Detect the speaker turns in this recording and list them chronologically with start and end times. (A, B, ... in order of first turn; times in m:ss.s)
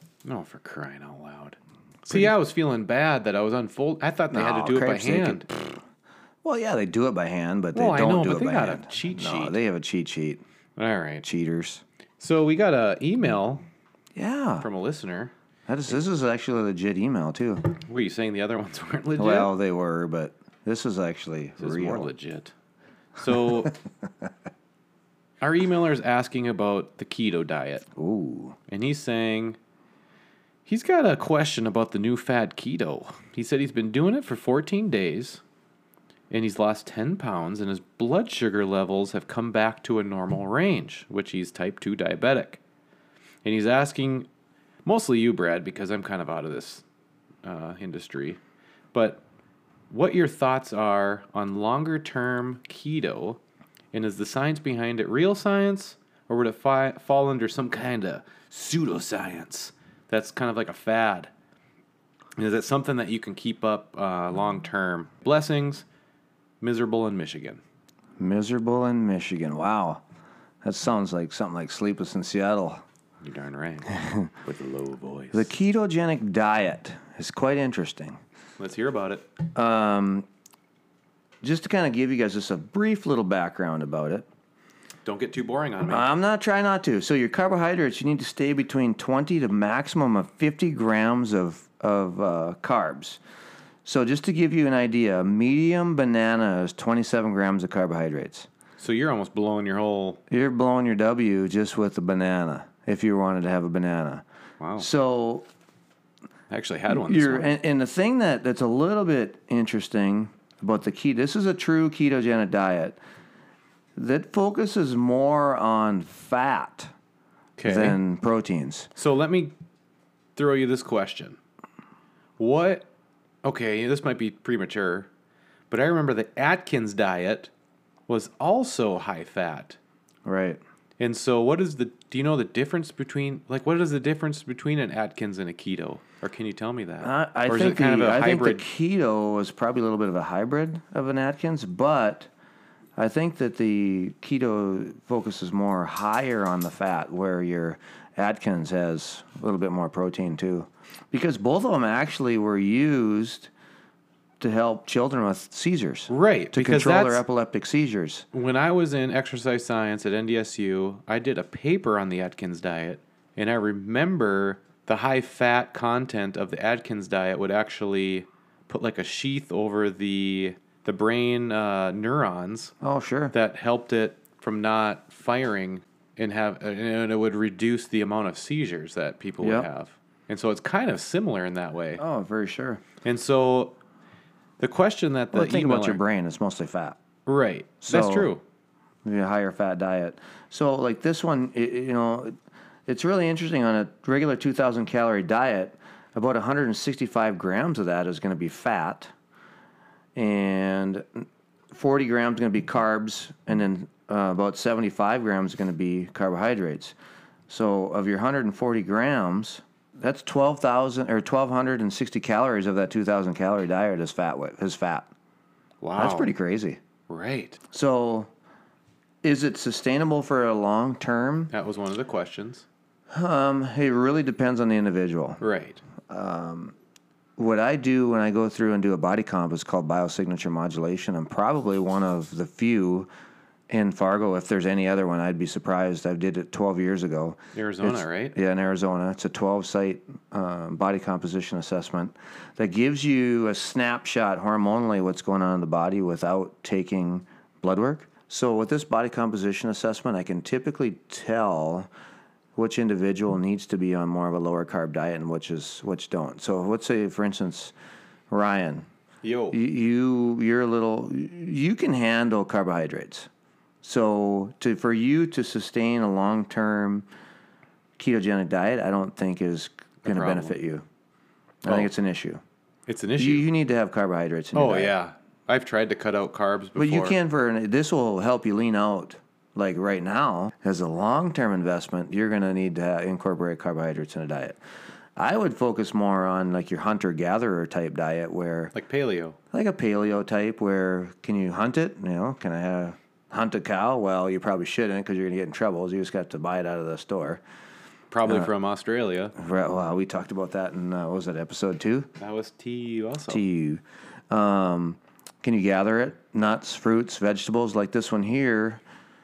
0:00.2-0:05.5 A
0:02.1-0:02.4 B
0:04.3-0:05.8 B
0:06.4-0:10.4 B
0:07.7-0:09.6 A
0:10.8-0:11.2 A
0:11.2-0:11.8 B
0:12.2-0:13.6 A
0:14.1-0:14.7 B
0:14.6-0:15.3 A
0:15.7-0:17.7 B
0:17.9-0:19.5 A
0:19.2-0:22.1 B
0:21.6-0:22.5 A
0:23.2-0:23.7 A
0:23.2-0:24.3 B
0:25.4-0:27.9 A
0:28.0-0:28.6 B
0:28.7-0:29.6 A
0:30.6-0:35.4 A
0:36.3-0:42.6 A
0:43.4-0:44.3 A
0:44.8-0:46.8 A
0:47.4-0:48.4 A
0:48.9-0:49.2 A
0:49.9-0:53.4 A
0:53.9-1:01.3 A
1:02.4-1:05.8 A
1:06.6-1:07.6 A
1:08.2-1:10.0 B
1:10.6-1:12.8 B
1:13.2-1:15.5 A
1:13.9-1:14.3 B
1:15.3-1:18.2 B
1:18.6-1:19.2 A
1:19.5-1:20.2 B
1:21.4-1:24.2 B
1:25.0-1:26.1 A
1:25.8-1:33.2 B
1:33.8-1:38.5 B
1:38.8-1:40.2 A
1:40.3-1:44.2 B
1:44.6-1:44.9 A
1:44.8-1:45.5 B
1:46.5-1:47.5 A
1:46.9-1:53.0 B
1:54.0-1:56.9 B
1:57.6-1:58.0 A
1:57.6-1:58.9 B
1:59.0-1:59.5 A
2:00.4-2:01.4 A
2:02.4-2:02.9 A
2:03.4-2:05.1 A
2:05.7-2:07.5 A
2:08.1-2:09.8 A
2:10.2-2:10.6 B
2:11.0-2:18.6 A
2:17.0-2:22.3 B
2:23.0-2:33.5 B
2:34.4-2:38.3 B
2:36.1-2:37.2 A
2:38.3-2:52.7 A
2:52.8-2:53.3 B
2:53.3-3:02.0 A
2:59.4-2:59.7 B
3:02.0-3:02.8 B
3:03.0-3:03.8 A
3:04.6-3:06.0 A
3:05.3-3:07.0 B
3:07.2-3:08.4 A
3:07.8-3:08.3 B
3:09.0-3:12.3 B
3:12.9-3:19.1 B
3:20.2-3:27.0 B
3:27.5-3:35.1 B
3:35.8-3:36.3 A
3:36.0-3:36.8 B
3:37.1-3:37.6 A
3:37.7-3:38.3 B
3:39.2-3:41.5 B
3:41.5-3:42.7 A
3:43.1-3:45.4 B
3:45.4-3:45.8 A
3:46.1-3:46.8 B
3:47.4-3:53.1 B
3:53.7-4:11.9 B
3:57.5-3:58.4 A
4:12.6-4:17.7 B
4:18.3-4:18.9 B
4:19.2-4:19.6 A
4:19.5-4:23.3 B
4:23.8-4:27.0 B
4:28.0-4:30.8 B
4:30.0-4:30.5 A
4:31.6-4:32.4 B
4:32.9-4:33.5 A
4:33.2-4:35.0 B
4:34.5-4:37.2 A
4:36.8-4:44.6 B
4:45.2-4:48.7 B
4:48.7-4:49.4 A
4:49.5-4:57.4 B
4:58.1-4:59.3 A
4:58.2-4:58.5 B
4:59.4-5:02.1 B
5:02.2-5:03.4 A
5:03.3-5:08.8 B